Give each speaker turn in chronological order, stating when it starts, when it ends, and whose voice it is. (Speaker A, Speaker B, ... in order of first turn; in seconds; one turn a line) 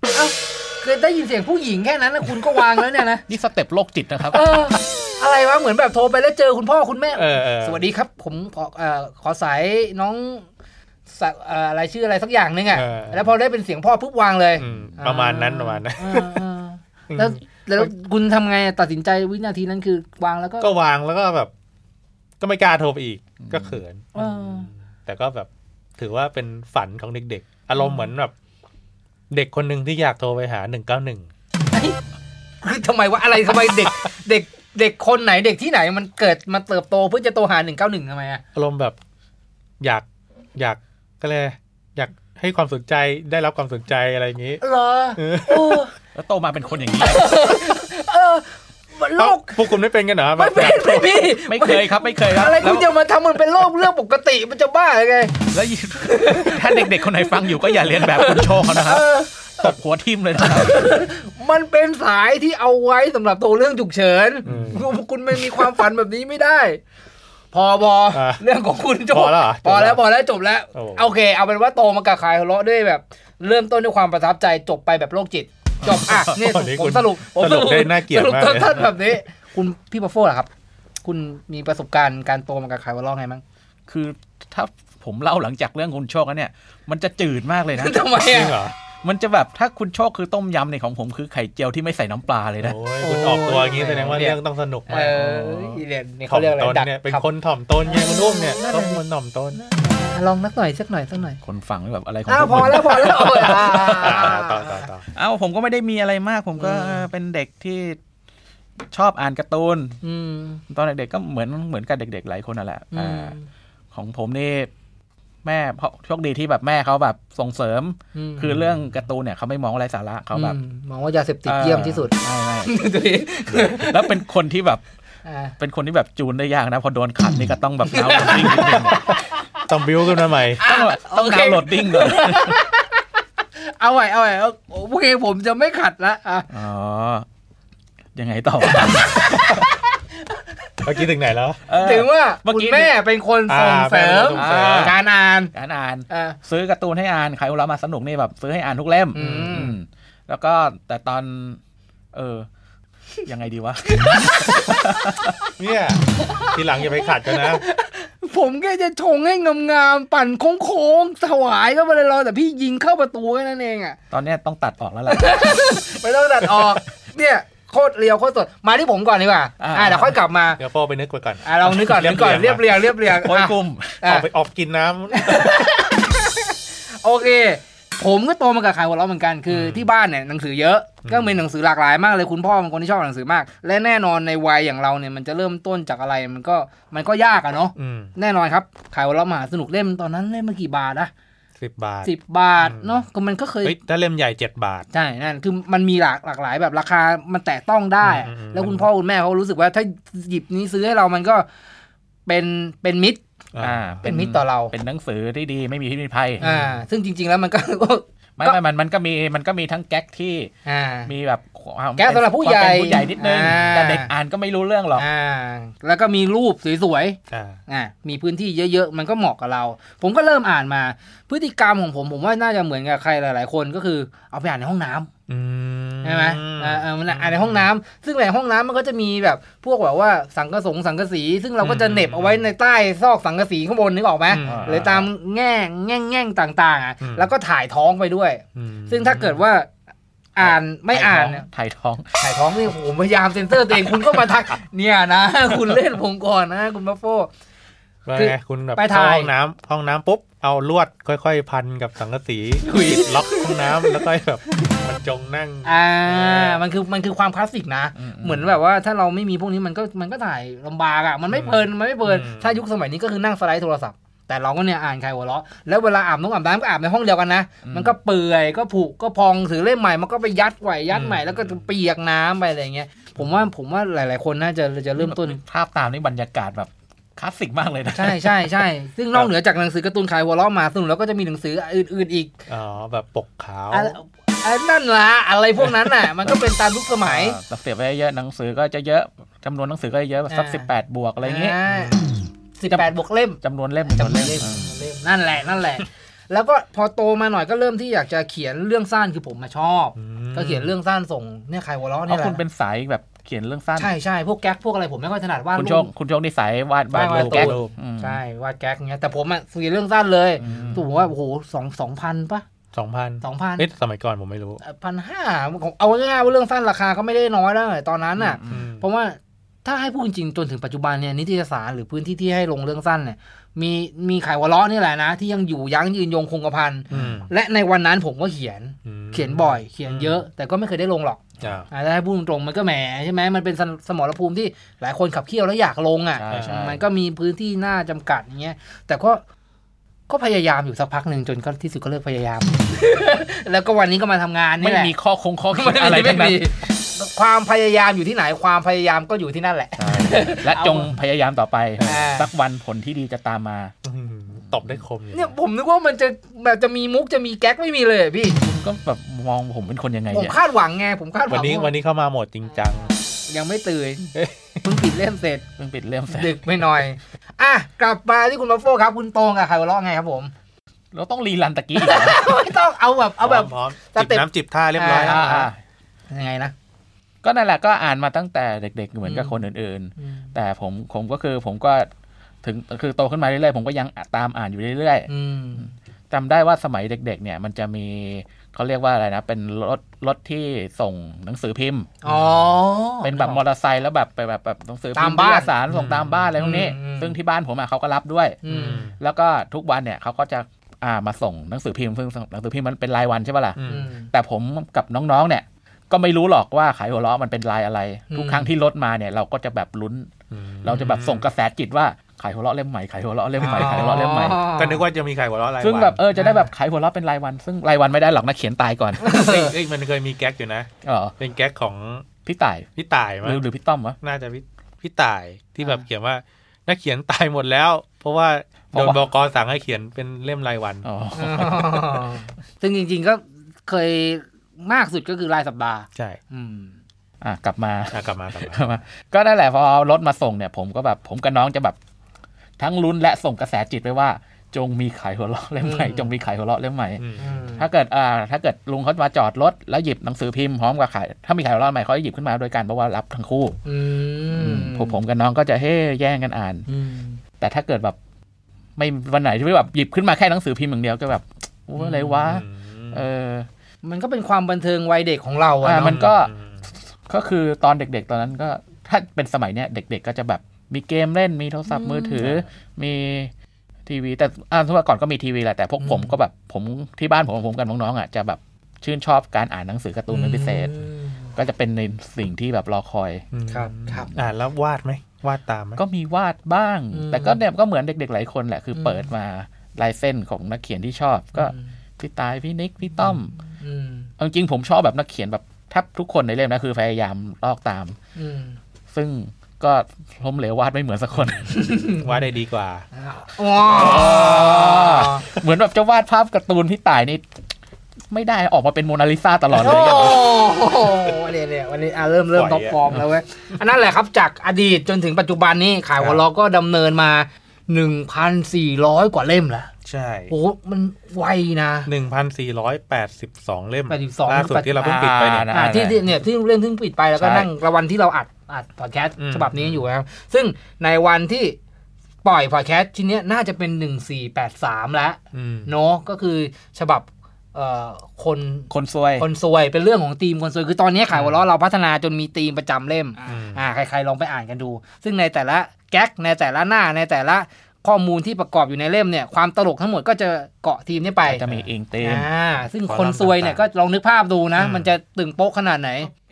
Speaker A: 0.1-3.2
Speaker B: 3.3-4.8
Speaker A: 4.3-10.5
Speaker C: 7.1-7.8
Speaker A: 11.1-20.7
Speaker C: 12.7-13.3
Speaker C: 14.6-16.4
Speaker C: 17.1-17.9
Speaker C: 20.6-21.5
Speaker C: 22.4-28.3
Speaker B: 23.4-23.8
Speaker A: 24.1-24.7
Speaker C: 29.3-31.3
Speaker A: 31.7-32.0
Speaker A: 32.6-38.4
Speaker C: 38.5-39.0
Speaker C: 39.8-40.0
Speaker C: 40.5-44.6
Speaker A: 44.6-45.9
Speaker C: 45.2-45.8
Speaker B: 46.1-47.8
Speaker A: 47.0-49.7
Speaker C: 49.2-51.1
Speaker A: 50.4-55.4
Speaker B: 51.3-52.9
Speaker B: 55.5-60.9
Speaker A: 56.0-59.7
Speaker A: 60.4-66.8
Speaker C: 64.5-64.9
Speaker A: 67.5-80.5
Speaker C: 68.1-68.4
Speaker C: 69.1-70.0
Speaker C: 70.7-71.1
Speaker B: 75.9-76.3
Speaker C: 76.1-79.0
Speaker A: 81.0-83.4
Speaker B: 83.9-88.0
Speaker A: 87.8-88.6
Speaker C: 88.2-88.8
Speaker B: 89.0-92.8
Speaker C: 92.6-99.6
Speaker A: 93.0-97.2
Speaker A: 97.8-99.0
Speaker A: 99.5-101.4
Speaker B: 101.4-104.4
Speaker A: 102.3-104.9
Speaker C: 104.0-105.0
Speaker B: 105.1-108.0
Speaker A: 106.6-107.1
Speaker B: 108.9-110.0
Speaker A: 110.0-110.6
Speaker B: 110.7-113.3
Speaker A: 112.9-113.5
Speaker B: 113.9-114.7
Speaker B: 115.4-120.6
Speaker A: 118.1-118.7
Speaker A: 120.3-124.2
Speaker B: 121.5-122.8
Speaker B: 123.5-124.8
Speaker A: 125.2-125.5
Speaker B: 125.6-129.0
Speaker A: 127.8-129.1
Speaker C: 129.7-130.6
Speaker A: 130.6-133.0
Speaker B: 130.6-132.6
Speaker A: 133.6-136.5
Speaker B: 136.5-137.2
Speaker B: 138.1-139.7
Speaker A: 138.7-140.4
Speaker C: 140.8-141.6
Speaker B: 141.7-142.9
Speaker A: 141.7-145.5
Speaker C: 143.5-144.9
Speaker B: 144.3-145.0
Speaker B: 145.5-151.6
Speaker A: 146.1-146.4
Speaker A: 149.1-149.8
Speaker B: 152.1-152.5
Speaker B: 153.2-155.3
Speaker A: 153.9-155.2
Speaker C: 155.6-157.6
Speaker A: 156.2-164.0
Speaker B: 164.1-165.7
Speaker A: 165.1-170.6
Speaker B: 169.6-170.2
Speaker C: 170.6-172.6
Speaker A: 171.4-174.3
Speaker B: 173.1-174.0
Speaker C: 174.0-175.6
Speaker A: 175.1-191.1
Speaker C: 179.5-179.8
Speaker C: 181.0-181.4
Speaker C: 187.8-188.1
Speaker C: 191.6-193.0
Speaker A: 192.0-193.8
Speaker C: 193.6-194.9
Speaker A: 194.9-201.5
Speaker C: 198.0-198.9
Speaker A: 202.2-203.2
Speaker C: 203.5-204.0
Speaker B: 203.6-206.4
Speaker A: 204.0-204.7
Speaker A: 206.4-208.6
Speaker B: 208.4-210.5
Speaker A: 210.7-211.1
Speaker B: 211.1-215.1
Speaker A: 212.0-214.1
Speaker A: 214.9-225.1
Speaker C: 217.3-217.6
Speaker C: 225.3-227.7
Speaker A: 226.0-239.7
Speaker C: 231.6-232.5
Speaker C: 234.3-235.1
Speaker B: 234.4-234.9
Speaker C: 237.0-237.3
Speaker C: 238.5-239.4
Speaker A: 240.3-241.4
Speaker B: 240.4-242.1
Speaker A: 242.2-247.3
Speaker C: 248.1-256.6
Speaker A: 248.2-249.3
Speaker A: 252.6-254.1
Speaker A: 255.6-275.4
Speaker B: 257.9-258.5
Speaker C: 261.3-262.6
Speaker B: 267.6-267.9
Speaker C: 270.9-271.6
Speaker B: 275.0-278.5
Speaker A: 277.9-282.3
Speaker C: 282.5-283.9
Speaker A: 283.7-287.4
Speaker B: 287.0-291.6
Speaker A: 290.3-290.7
Speaker A: 291.2-292.0
Speaker C: 291.7-292.0
Speaker A: 292.6-302.4
Speaker B: 293.4-294.8
Speaker C: 299.9-300.7
Speaker B: 302.1-303.9
Speaker A: 303.8-305.9
Speaker B: 305.6-308.2
Speaker A: 306.9-312.4
Speaker C: 307.1-307.7
Speaker B: 310.4-310.9
Speaker C: 310.4-310.8
Speaker C: 312.7-314.6
Speaker A: 313.2-313.7
Speaker A: 314.6-339.2
Speaker B: 318.2-318.6
Speaker C: 318.5-318.8
Speaker C: 326.9-327.3
Speaker C: 328.8-330.2
Speaker C: 331.4-331.7
Speaker B: 336.1-336.8
Speaker C: 336.3-336.6
Speaker A: 340.1-344.9
Speaker B: 344.6-346.5
Speaker A: 345.5-350.9
Speaker B: 349.8-353.7
Speaker A: 351.8-352.3
Speaker C: 353.8-355.3
Speaker A: 355.1-358.4
Speaker B: 358.4-360.4
Speaker A: 360.1-361.7
Speaker C: 361.3-362.9
Speaker A: 362.9-364.1
Speaker A: 364.6-365.4
Speaker B: 365.6-366.5
Speaker A: 366.1-370.3
Speaker B: 370.9-372.2
Speaker A: 371.8-375.5
Speaker C: 373.2-375.5
Speaker B: 375.0-375.6
Speaker A: 376.1-376.5
Speaker B: 377.2-381.9
Speaker A: 379.0-379.4
Speaker A: 380.0-380.3
Speaker B: 382.4-385.1
Speaker A: 385.1-385.7
Speaker B: 386.1-391.9
Speaker A: 392.0-393.4
Speaker C: 392.1-392.4
Speaker B: 393.0-410.1
Speaker A: 394.9-395.5
Speaker C: 395.7-396.3
Speaker A: 396.4-397.1
Speaker A: 398.4-398.9
Speaker C: 398.5-398.9
Speaker C: 403.6-403.9
Speaker A: 403.7-404.1
Speaker A: 408.1-408.5
Speaker C: 410.3-411.3
Speaker B: 410.6-414.4
Speaker A: 413.4-414.8
Speaker C: 413.4-413.9
Speaker C: 414.6-416.0
Speaker B: 415.6-419.0
Speaker A: 416.1-416.5
Speaker A: 419.0-419.5
Speaker C: 419.1-422.1
Speaker B: 420.8-421.1
Speaker B: 422.2-422.7
Speaker C: 422.8-423.4
Speaker B: 423.2-424.0
Speaker C: 424.0-430.9
Speaker B: 428.7-429.0
Speaker B: 430.8-432.1
Speaker A: 431.1-436.7
Speaker C: 435.9-436.2
Speaker B: 437.2-441.8
Speaker C: 437.9-438.7
Speaker B: 442.6-447.0
Speaker A: 445.6-446.1
Speaker C: 447.0-447.3
Speaker A: 447.2-447.7
Speaker B: 447.6-453.6
Speaker A: 453.6-455.0
Speaker B: 454.3-456.7
Speaker A: 456.7-457.2
Speaker B: 457.4-457.9
Speaker B: 458.8-463.5
Speaker C: 461.9-463.0
Speaker A: 463.8-466.0
Speaker B: 465.6-466.3
Speaker C: 465.8-466.6
Speaker B: 467.1-473.3
Speaker A: 471.7-472.3
Speaker C: 472.2-472.4
Speaker B: 473.9-480.8
Speaker A: 475.8-476.1
Speaker A: 480.1-481.3
Speaker B: 481.3-483.2
Speaker C: 483.3-485.8
Speaker A: 483.5-484.1
Speaker B: 485.8-493.3
Speaker A: 486.9-487.4
Speaker A: 488.7-489.1
Speaker A: 491.3-491.6
Speaker A: 493.0-494.1
Speaker B: 494.2-498.0
Speaker A: 498.1-498.6
Speaker B: 498.9-501.5
Speaker C: 501.2-501.5
Speaker A: 501.5-502.1
Speaker C: 502.0-502.9
Speaker A: 502.9-505.2
Speaker B: 503.6-507.2
Speaker B: 508.1-510.2
Speaker A: 509.5-519.7
Speaker C: 512.3-512.8
Speaker C: 519.8-520.3
Speaker A: 520.3-521.9
Speaker C: 521.9-525.5
Speaker A: 523.9-524.9
Speaker B: 524.8-526.0
Speaker A: 525.5-531.6
Speaker B: 527.2-527.5
Speaker C: 529.2-529.9
Speaker A: 532.2-551.4
Speaker C: 535.3-535.7
Speaker B: 538.7-539.3
Speaker C: 541.1-541.4
Speaker C: 543.2-543.6
Speaker B: 551.3-552.2
Speaker A: 552.0-556.1
Speaker C: 552.9-553.6
Speaker C: 554.6-554.9